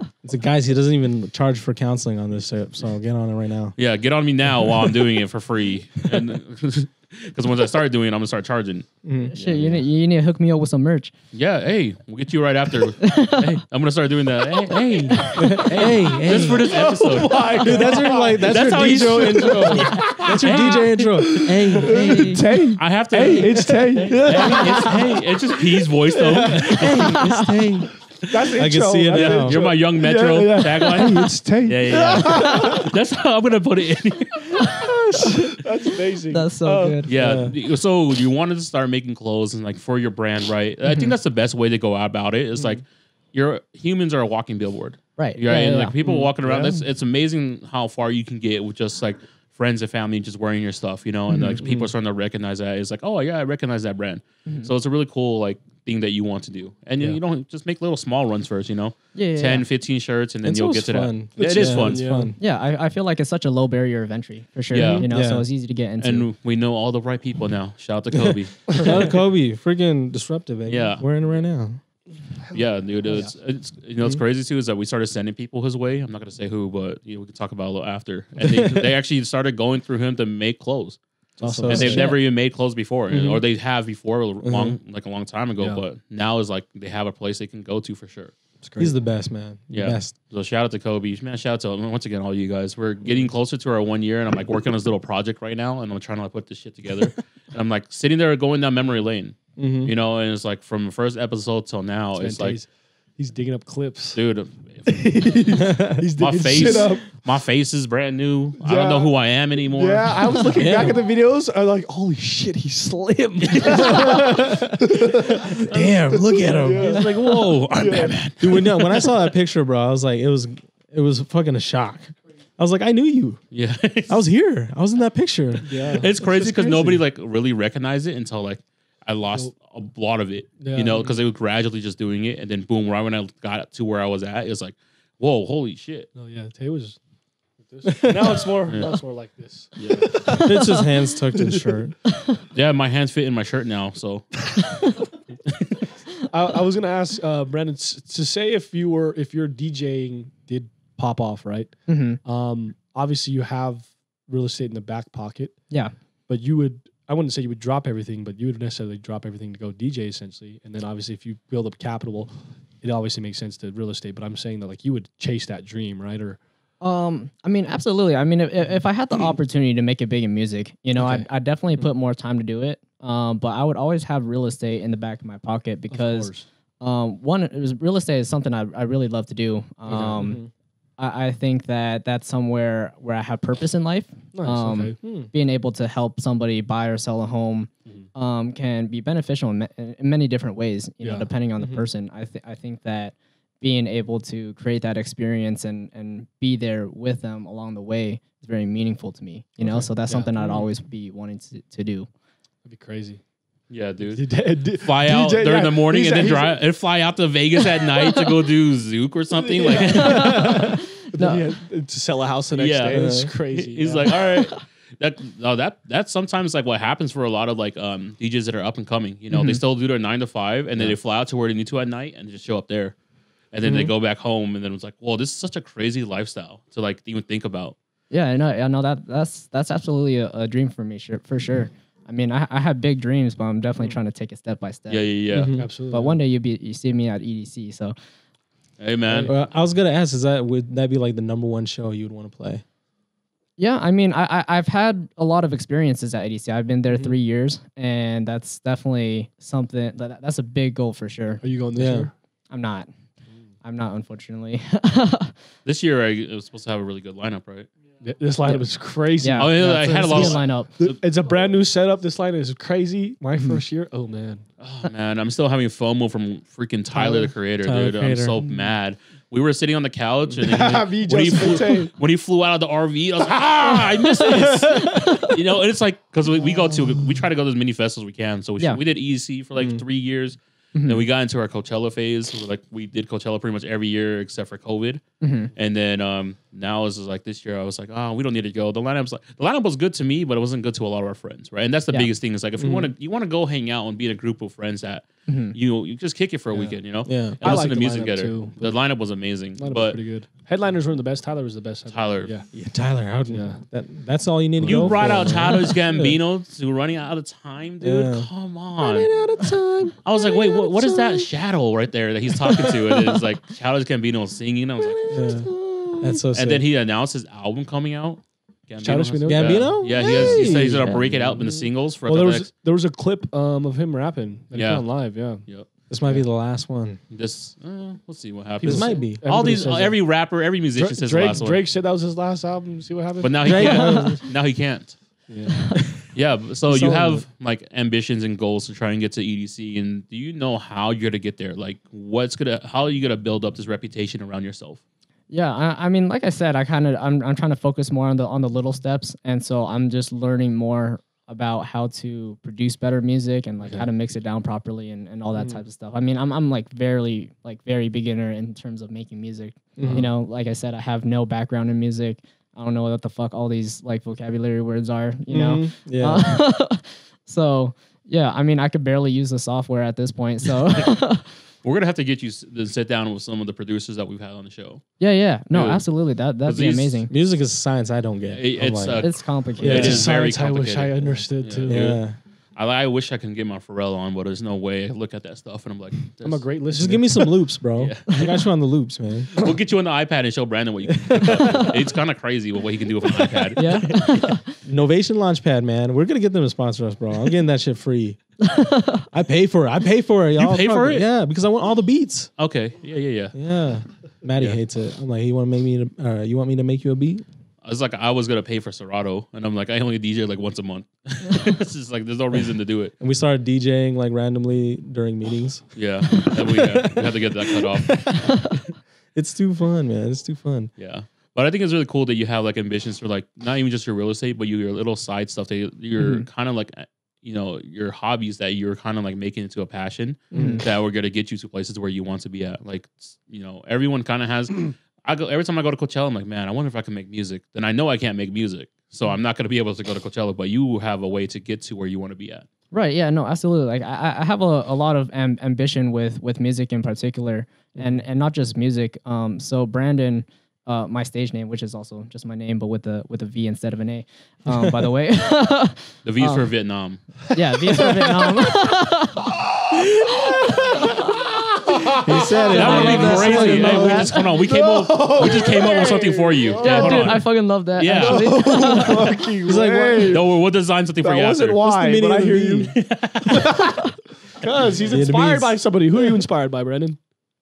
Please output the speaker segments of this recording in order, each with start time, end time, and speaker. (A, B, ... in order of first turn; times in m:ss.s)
0:00.2-0:03.8 A
0:03.8-0:09.8 B
0:04.7-0:05.0 A
0:09.0-0:09.3 A
0:09.3-0:11.1 C
0:11.3-0:21.4 B
0:13.0-0:13.6 C
0:15.1-0:15.6 C
0:15.4-0:16.7 A
0:16.3-0:25.2 D
0:17.6-0:22.4 A
0:21.8-0:22.5 C
0:22.8-0:27.0 B
0:26.3-0:26.8 D
0:26.5-0:28.0 A
0:27.0-0:27.5 C
0:28.2-0:32.9 D
0:28.5-0:29.6 A
0:29.1-0:34.7 B
0:32.2-0:32.8 C
0:34.5-0:35.5 C
0:35.1-0:37.0 D
0:36.3-0:37.1 C
0:37.0-1:02.0 B
0:37.1-0:37.5 A
0:45.2-0:46.0 C
0:46.0-0:46.8 D
0:51.6-0:51.9 A
0:54.4-0:54.7 C
0:59.1-0:59.6 C
1:00.4-1:02.4 A
1:01.4-1:02.3 D
1:02.4-1:06.3 C
1:04.7-1:05.1 B
1:05.0-1:05.4 A
1:06.0-1:09.1 B
1:08.1-1:11.8 A
1:08.7-1:09.1 D
1:10.7-1:11.0 B
1:12.5-1:21.0 B
1:18.4-1:18.9 A
1:21.4-1:22.2 A
1:21.4-1:22.1 D
1:21.6-1:28.3 B
1:23.1-1:23.4 A
1:24.4-1:24.8 A
1:28.6-1:29.0 D
1:28.8-1:30.1 A
1:29.7-1:42.6 B
1:39.6-1:39.9 A
1:42.2-1:44.2 D
1:44.1-1:45.0 B
1:44.8-1:47.1 D
1:45.6-1:46.0 A
1:46.2-1:50.5 B
1:46.6-1:46.8 A
1:48.6-1:49.1 D
1:49.7-1:58.5 D
1:50.5-1:51.0 A
1:53.4-1:54.4 B
1:54.0-1:57.1 A
1:56.7-1:59.0 B
1:58.4-2:03.4 A
2:03.5-2:04.2 B
2:04.1-2:06.6 A
2:05.7-2:07.0 D
2:05.8-2:16.1 B
2:10.6-2:11.2 D
2:16.1-2:17.0 D
2:17.6-2:20.5 D
2:17.8-2:18.4 A
2:18.7-2:19.0 B
2:19.8-2:20.2 B
2:20.4-2:21.9 A
2:22.5-2:24.5 B
2:24.7-2:25.0 C
2:25.5-2:25.8 B
2:26.3-2:35.7 D
2:31.9-2:32.2 C
2:36.3-2:46.4 D
2:46.8-3:00.4 C
2:51.0-2:51.3 D
2:55.9-2:56.4 D
2:59.9-3:00.4 D
3:00.2-3:00.5 A
3:01.0-3:22.1 C
3:04.3-3:05.0 D
3:05.0-3:05.3 A
3:11.0-3:11.3 D
3:19.6-3:20.6 D
3:22.6-3:23.2 D
3:23.7-3:24.2 B
3:24.0-3:26.6 D
3:24.8-3:30.6 B
3:29.3-3:34.1 D
3:29.8-3:31.5 C
3:32.5-3:43.0 B
3:32.9-3:33.3 A
3:39.3-3:39.6 C
3:43.5-3:47.8 B
3:43.6-3:43.9 A
3:48.1-3:55.1 C
3:54.9-3:55.6 B
3:55.3-3:55.7 A
3:55.5-3:56.2 D
3:55.9-3:58.0 C
3:58.8-3:59.3 B
3:59.1-4:02.6 A
4:03.6-4:11.4 C
4:11.4-4:12.1 D
4:11.7-4:12.1 A
4:12.5-4:12.9 C
4:13.6-4:15.3 C
4:15.6-4:17.7 B
4:18.0-4:24.4 D
4:19.2-4:20.7 C
4:19.4-4:21.0 B
4:19.6-4:20.3 A
4:24.6-4:45.0 B
4:26.9-4:28.5 A
4:30.4-4:31.9 D
4:34.2-4:35.4 C
4:39.6-4:39.8 A
4:40.7-4:41.0 C
4:45.2-4:45.5 C
4:45.5-5:00.0 B
4:52.6-4:52.9 A
4:55.3-4:55.6 C
4:56.5-4:56.8 D
4:57.0-4:57.5 A
4:57.4-4:58.8 D
4:59.6-5:02.5 D
5:01.9-5:02.3 B
5:02.5-5:06.2 A
5:03.3-5:03.6 D
5:04.6-5:05.7 D
5:04.6-5:09.1 B
5:07.8-5:08.3 A
5:08.8-5:11.3 D
5:10.0-5:15.2 B
5:12.4-5:13.0 D
5:14.9-5:16.2 D
5:15.1-5:16.6 A
5:16.3-5:22.5 B
5:18.8-5:21.4 D
5:19.2-5:21.1 A
5:22.0-5:25.4 D
5:24.5-5:25.7 B
5:25.9-5:27.0 A
5:27.1-5:31.6 B
5:28.6-5:30.1 D
5:28.6-5:29.5 A
5:30.7-5:33.8 D
5:33.2-5:35.0 B
5:33.4-5:34.2 A
5:33.6-5:34.2 C
5:35.3-5:35.8 D
5:36.1-5:44.8 B
5:36.7-5:37.2 A
5:45.3-6:11.3 C
5:55.3-5:55.6 D
5:59.8-6:00.1 A
5:59.8-6:00.1 D
6:05.3-6:06.3 A
6:11.6-6:14.8 B
6:15.0-6:17.1 C
6:15.5-6:15.8 B
6:16.4-6:17.0 B
6:17.1-6:19.0 A
6:18.3-6:22.0 B
6:19.0-6:20.0 C
6:19.6-6:20.1 A
6:19.6-6:22.0 D
6:21.7-6:22.2 A
6:22.6-6:26.4 B
6:26.2-6:27.3 D
6:26.7-6:29.3 A
6:27.8-6:28.4 B
6:29.3-6:34.3 B
6:30.9-6:31.7 A
6:33.6-6:34.5 C
6:34.6-6:38.2 A
6:38.4-6:39.0 C
6:39.1-6:42.3 A
6:40.4-6:41.0 B
6:42.4-6:43.3 B
6:43.3-6:47.2 A
6:47.6-6:52.9 B
6:53.0-6:58.3 A
6:55.7-6:58.3 B
6:59.1-7:00.7 A
7:00.8-7:22.4 B
7:06.0-7:06.2 C
7:10.3-7:10.6 C
7:10.3-7:10.6 A
7:22.7-7:36.5 C
7:34.5-7:34.8 A
7:36.0-7:37.0 B
7:37.3-7:39.2 C
7:41.8-7:47.2 D
7:42.0-7:44.2 A
7:42.5-7:44.1 C
7:42.5-7:48.7 B
7:46.6-7:49.2 C
7:47.9-7:50.3 D
7:49.4-7:50.2 A
7:50.1-7:51.6 B
7:51.0-7:57.0 D
7:51.6-7:52.8 A
7:52.7-7:53.5 B
7:54.8-7:55.6 A